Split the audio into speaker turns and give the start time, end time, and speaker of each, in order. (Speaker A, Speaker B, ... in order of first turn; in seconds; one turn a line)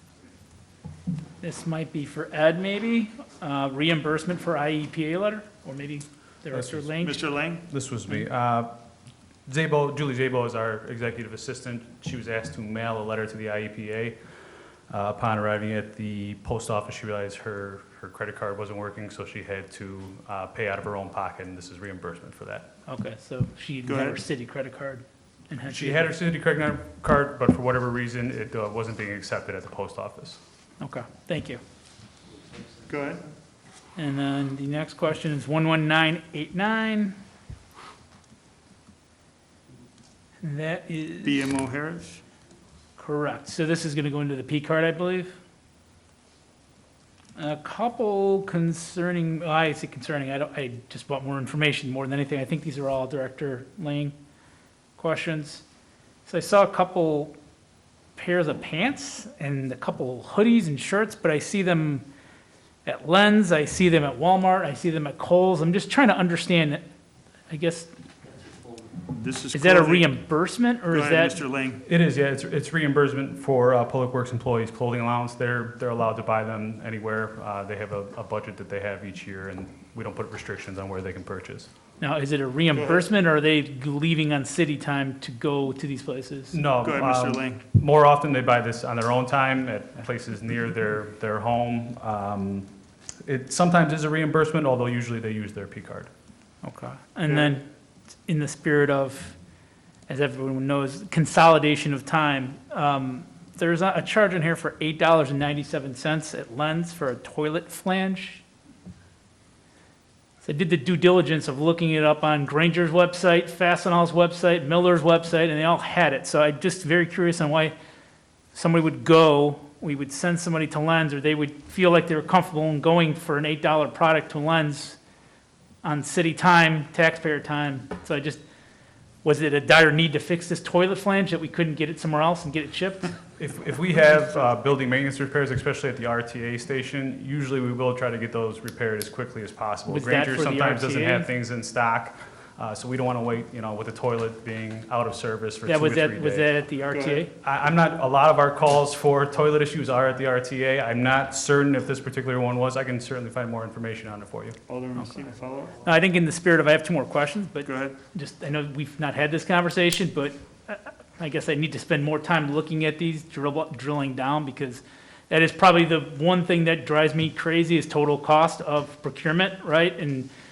Speaker A: 1.4-7.2
Speaker B: 6.5-6.9
Speaker C: 7.0-7.7
Speaker B: 7.7-8.7
Speaker B: 9.5-14.2
Speaker B: 14.9-22.7
Speaker A: 22.9-26.1
Speaker C: 23.9-24.2
Speaker B: 25.7-30.4
Speaker A: 30.8-31.6
Speaker C: 32.9-33.2
Speaker A: 34.0-37.2
Speaker A: 40.4-41.4
Speaker C: 41.2-42.2
Speaker A: 43.0-45.4
Speaker A: 47.4-54.1
Speaker A: 55.0-55.6
Speaker A: 56.3-57.3
Speaker A: 58.2-62.0
Speaker A: 62.9-66.8
Speaker A: 67.5-67.9
Speaker C: 69.1-70.1
Speaker A: 69.5-71.3
Speaker C: 70.9-71.8
Speaker B: 71.8-81.7
Speaker A: 82.0-86.6
Speaker C: 82.7-83.1
Speaker B: 86.5-92.7
Speaker C: 86.8-87.6
Speaker B: 93.2-96.1
Speaker A: 96.6-97.7
Speaker A: 98.2-99.4
Speaker A: 100.1-108.4
Speaker A: 110.4-117.8
Speaker A: 118.5-125.0
Speaker A: 125.8-128.4
Speaker A: 129.2-133.2
Speaker B: 133.4-146.5
Speaker A: 139.9-141.3
Speaker A: 145.7-147.3
Speaker C: 146.9-147.3
Speaker B: 147.4-154.6
Speaker C: 154.7-155.8
Speaker A: 155.8-170.3
Speaker C: 157.7-158.0